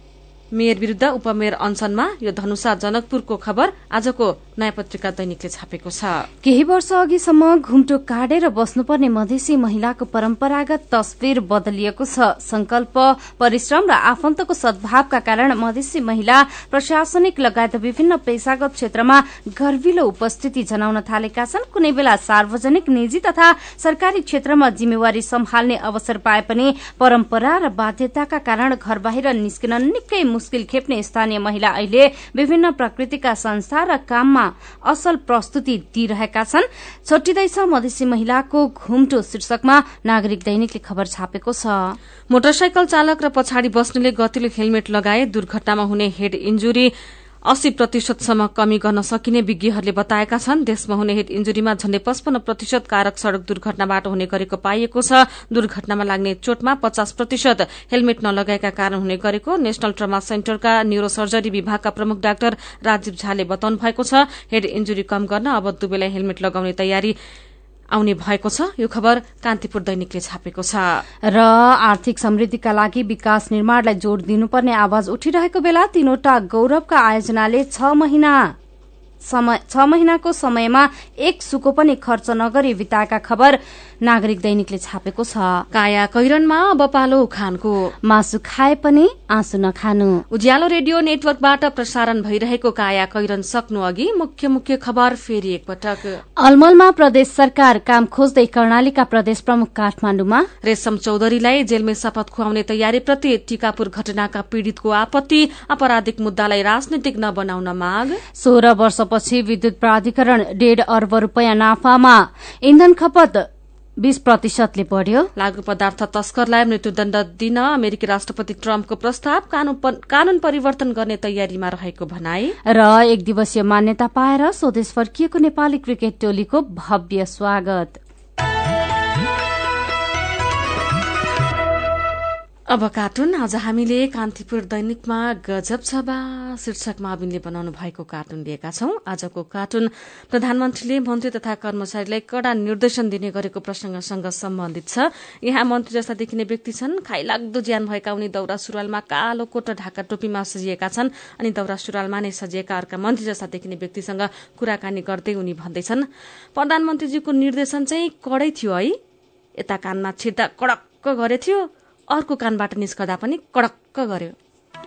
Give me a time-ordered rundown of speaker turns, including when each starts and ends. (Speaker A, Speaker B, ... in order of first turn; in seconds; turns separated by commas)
Speaker A: 0.5-6.2, Speaker B: 6.4-42.0, Speaker A: 42.3-46.9, Speaker A: 47.5-67.1, Speaker A: 67.9-71.0, Speaker B: 71.3-78.5, Speaker B: 79.2-85.6, Speaker A: 85.7-87.9, Speaker B: 88.0-90.2, Speaker A: 90.3-96.2, Speaker B: 96.4-100.5, Speaker A: 100.6-108.2, Speaker B: 108.4-113.5, Speaker B: 114.0-115.3, Speaker A: 115.3-122.5, Speaker B: 122.7-128.0, Speaker A: 132.7-159.0, Speaker A: 159.6-164.3